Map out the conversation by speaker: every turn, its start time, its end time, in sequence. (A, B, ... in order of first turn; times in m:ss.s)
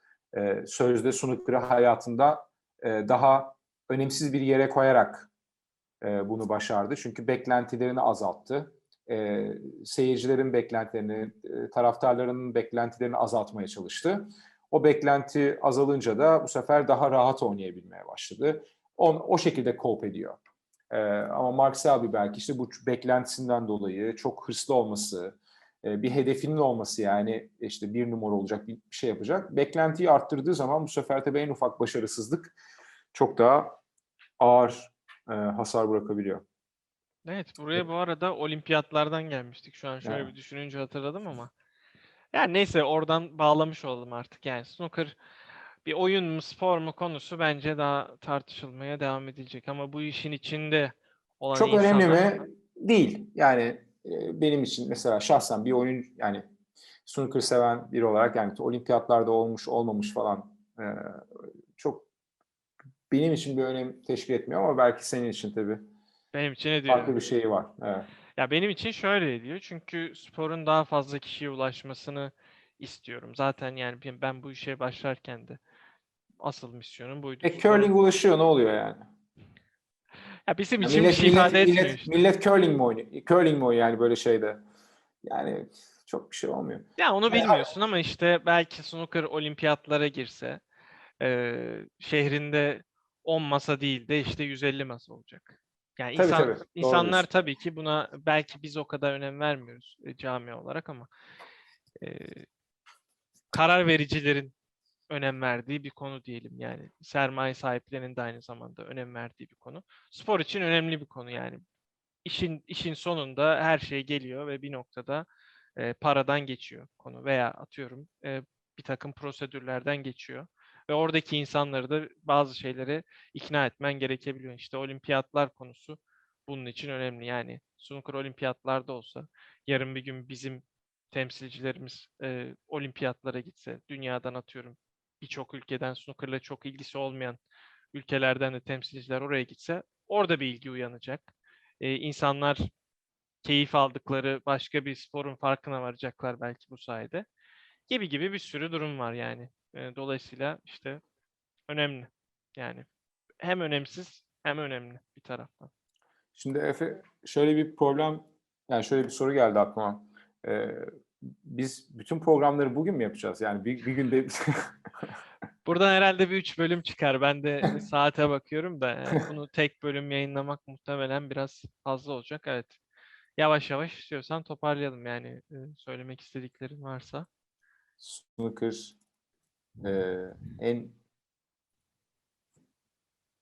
0:00.3-0:05.3 A
0:06.0-0:20.4 A
0:20.9-0:32.6 A
0:33.1-0:33.8 A
0:34.4-0:36.4 A
0:37.2-0:41.5 B
0:40.0-0:40.3 A
0:42.3-0:45.2 B
0:45.8-0:52.4 B
0:51.5-0:56.4 A
0:57.1-1:01.0 A
1:01.8-1:02.1 A
1:03.1-1:05.8 A
1:06.3-1:07.2 B
1:06.9-1:08.1 A
1:08.4-1:15.6 B
1:16.4-1:17.9 B
1:17.4-1:19.1 A
1:20.5-1:22.1 B
1:20.8-1:24.6 A
1:25.2-1:27.7 A
1:27.0-1:30.6 B
1:31.2-1:41.1 B
1:36.2-1:37.3 A
1:42.0-1:42.5 B
1:43.5-1:44.6 B
1:45.1-1:51.6 B
1:52.2-2:17.4 B
2:17.9-2:21.3 B
2:21.8-2:22.7 B
2:23.4-2:27.2 B
2:27.9-2:31.0 B
2:31.7-2:32.9 B
2:33.4-2:35.7 B
2:36.4-2:45.1 A
2:45.7-2:52.8 B
2:53.4-2:57.3 B
2:58.0-2:59.0 A
2:59.8-3:01.0 A